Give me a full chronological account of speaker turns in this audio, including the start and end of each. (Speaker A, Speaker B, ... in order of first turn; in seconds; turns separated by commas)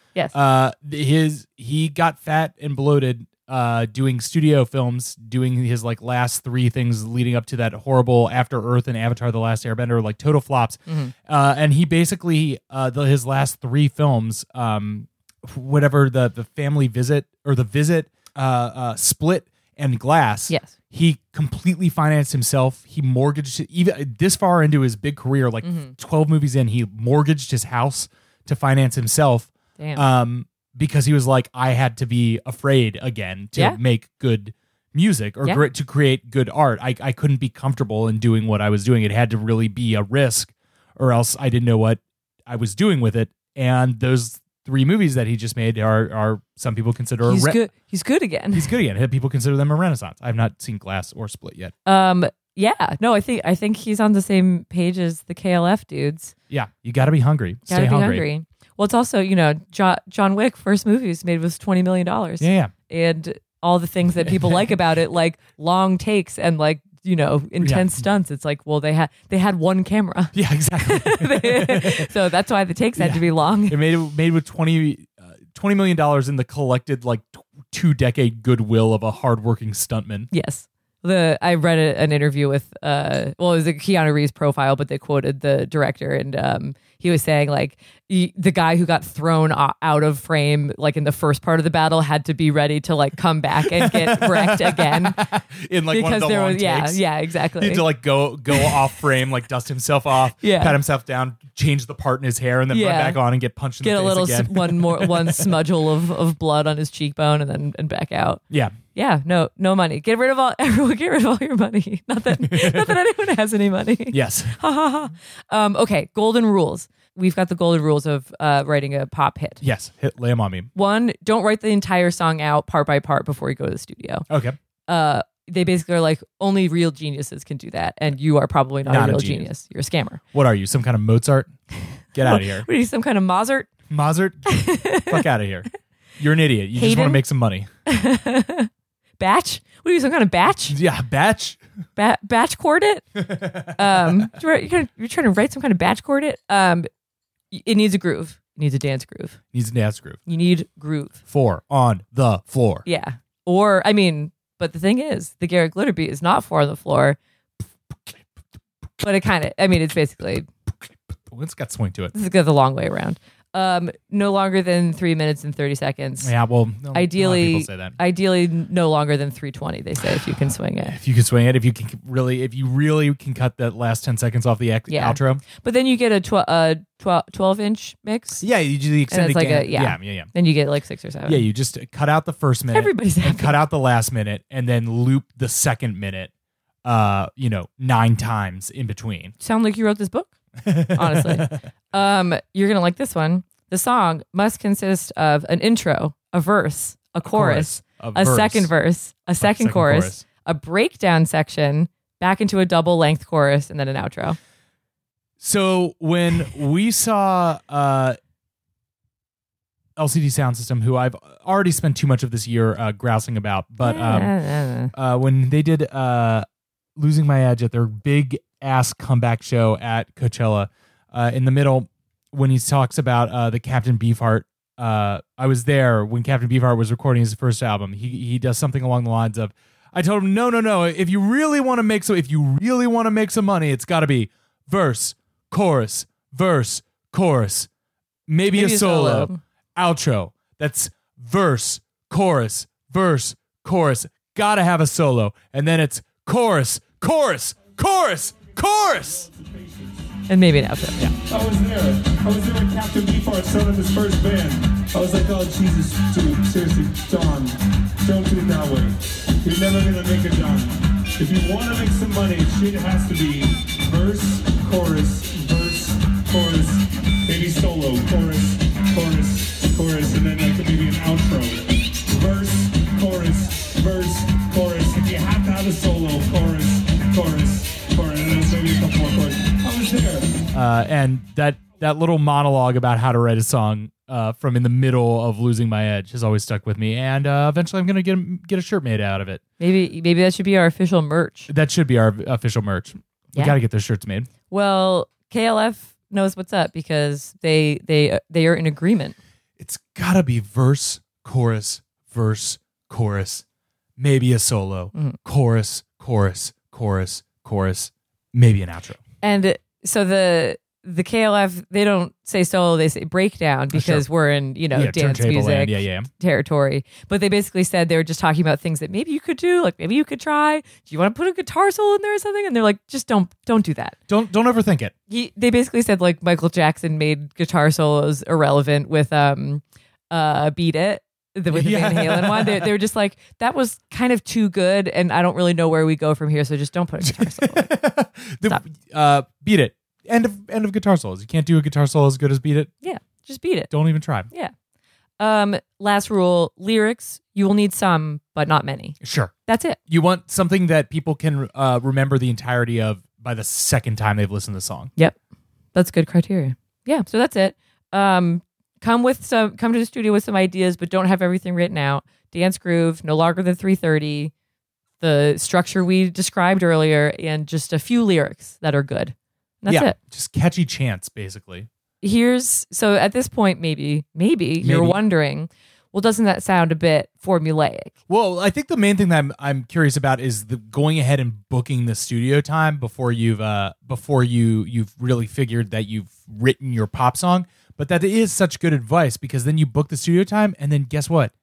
Speaker A: 0.3-47.6, Speaker B: 10.9-11.1, Speaker B: 25.6-25.9, Speaker B: 29.8-30.0, Speaker B: 47.2-48.7, Speaker A: 48.5-51.7, Speaker B: 51.9-56.3, Speaker A: 56.5-58.3, Speaker B: 57.7-73.8, Speaker A: 62.4-62.7, Speaker A: 67.6-67.9, Speaker A: 70.3-72.1, Speaker A: 73.0-80.3, Speaker B: 80.3-95.2, Speaker A: 93.7-97.0, Speaker B: 95.9-97.8, Speaker A: 97.6-105.6, Speaker B: 100.4-100.8, Speaker B: 102.7-103.2, Speaker B: 103.8-108.4, Speaker A: 108.5-108.8, Speaker B: 108.9-119.6, Speaker A: 112.3-113.0, Speaker A: 114.1-114.5, Speaker A: 119.6-120.7, Speaker B: 120.7-124.2, Speaker A: 124.3-124.6, Speaker B: 124.9-130.2, Speaker A: 128.9-129.5, Speaker A: 130.3-131.5, Speaker A: 132.1-132.7, Speaker B: 132.2-133.7, Speaker A: 133.9-135.7, Speaker B: 134.5-135.2, Speaker A: 136.2-137.7, Speaker B: 136.8-137.2, Speaker B: 137.9-140.8, Speaker A: 140.7-141.6, Speaker B: 141.9-146.9, Speaker A: 143.2-144.3, Speaker B: 147.5-149.4, Speaker A: 149.5-150.2, Speaker B: 150.2-151.2, Speaker A: 151.3-152.8, Speaker B: 152.8-157.2, Speaker B: 159.0-160.5, Speaker A: 161.1-162.1, Speaker B: 162.1-166.3, Speaker A: 166.2-168.0, Speaker B: 166.9-170.9, Speaker A: 170.9-175.4, Speaker B: 174.9-178.4, Speaker A: 178.4-180.3, Speaker B: 179.1-181.4, Speaker A: 181.2-186.3, Speaker B: 182.7-183.6, Speaker A: 186.8-189.3, Speaker B: 189.4-190.3, Speaker A: 190.6-191.6, Speaker B: 190.9-204.4, Speaker A: 197.2-198.7, Speaker A: 199.4-200.2, Speaker A: 205.4-208.2, Speaker A: 209.9-214.3, Speaker B: 213.8-214.9, Speaker A: 214.9-237.7, Speaker A: 238.3-249.3, Speaker B: 238.5-239.4, Speaker C: 249.2-250.1, Speaker B: 250.3-251.1, Speaker C: 251.2-280.4, Speaker A: 280.5-289.4, Speaker B: 289.6-291.5, Speaker A: 291.5-294.3, Speaker B: 294.5-299.1, Speaker A: 299.6-303.4, Speaker A: 304.0-309.0, Speaker B: 309.2-323.9, Speaker A: 313.7-314.0, Speaker A: 314.7-316.1, Speaker A: 324.1-324.9, Speaker B: 325.1-337.7, Speaker A: 331.5-332.7, Speaker A: 337.0-342.7, Speaker B: 342.8-343.7, Speaker A: 343.7-344.3, Speaker B: 345.2-349.8, Speaker A: 349.0-349.3, Speaker A: 349.9-354.9, Speaker B: 355.7-364.3, Speaker B: 365.0-369.9, Speaker A: 369.7-371.7, Speaker B: 372.0-377.9, Speaker A: 374.6-375.0, Speaker A: 378.1-391.3